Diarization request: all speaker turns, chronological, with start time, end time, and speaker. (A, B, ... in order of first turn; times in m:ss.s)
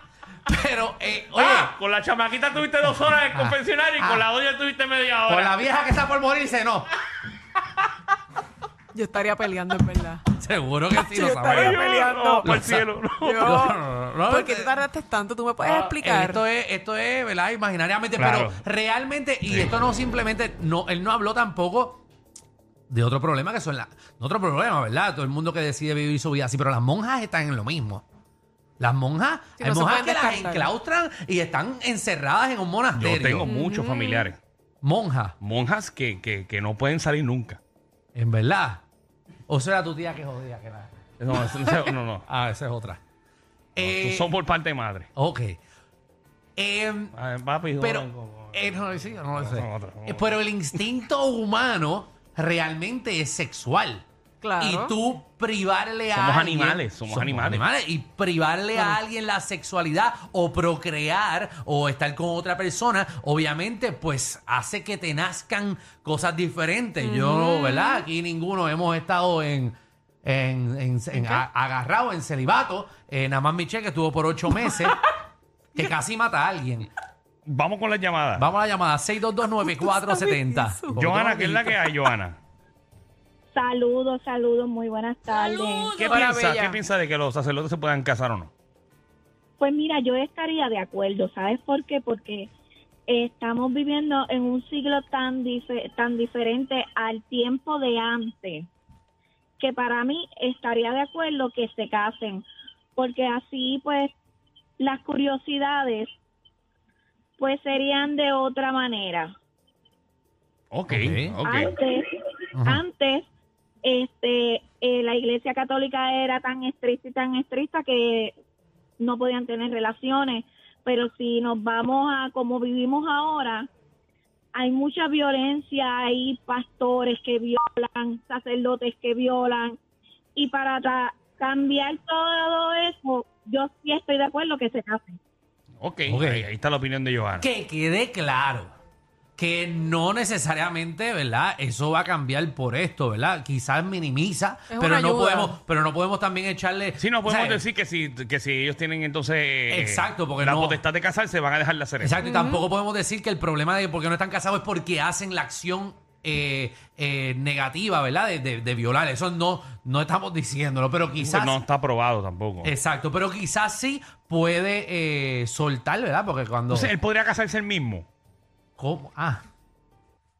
0:00.4-0:01.7 A
0:01.3-0:05.6 B
0:03.3-0:04.2 A
0:05.3-0:06.9 A
0:08.9-0:10.2 C
0:10.3-0:11.8 A
0:10.9-0:12.5 C
0:11.4-0:13.5 B
0:12.4-0:12.9 A
0:13.2-0:16.4 C
0:13.4-0:14.7 A
0:15.6-0:22.0 A
0:18.2-0:18.6 B
0:22.9-0:28.0 A
0:28.8-0:33.5 A
0:29.6-0:30.7 C
0:33.0-0:34.4 B
0:33.4-0:34.3 C
0:34.8-0:35.4 A
0:35.4-0:37.6 B
0:38.1-0:38.8 A
0:39.5-0:40.9 A
0:41.2-0:42.2 B
0:42.3-0:43.0 A
0:43.8-0:44.4 A
0:43.8-0:45.1 B
0:45.2-0:45.6 A
0:46.6-0:47.1 A
0:47.1-0:50.4 B
0:47.8-0:54.0 A
0:54.4-0:54.9 C
0:54.6-1:15.1 A
0:56.1-0:57.6 B
1:07.0-1:08.0 C
1:11.1-1:11.4 C
1:15.8-1:16.9 A
1:17.4-1:18.4 B
1:18.4-1:21.8 A
1:19.6-1:21.0 C
1:21.0-1:22.4 B
1:23.5-1:26.0 D
1:25.4-1:26.8 C
1:26.0-1:28.5 B
1:29.6-1:32.5 D
1:33.1-1:38.7 D
1:39.6-1:42.4 D
1:43.0-1:44.1 D
1:44.8-1:46.1 D
1:47.4-1:49.3 D
1:50.7-1:51.7 B
1:50.9-1:51.3 A
1:51.4-1:52.1 D
1:52.6-1:52.8 A
1:52.6-1:53.3 D
1:53.8-1:58.3 D
1:59.0-2:03.7 D
2:04.5-2:09.8 D
2:10.4-2:15.2 D
2:15.8-2:17.5 B
2:16.0-2:16.5 A
2:17.4-2:18.7 A
2:19.4-2:27.6 A
2:24.7-2:25.6 C
2:27.0-2:32.1 B
2:29.7-2:30.8 A
2:32.0-2:41.6 A
2:32.2-2:32.6 C
2:41.2-2:42.7 B
2:42.6-2:46.9 A
2:46.7-2:48.0 B
2:48.8-2:49.4 A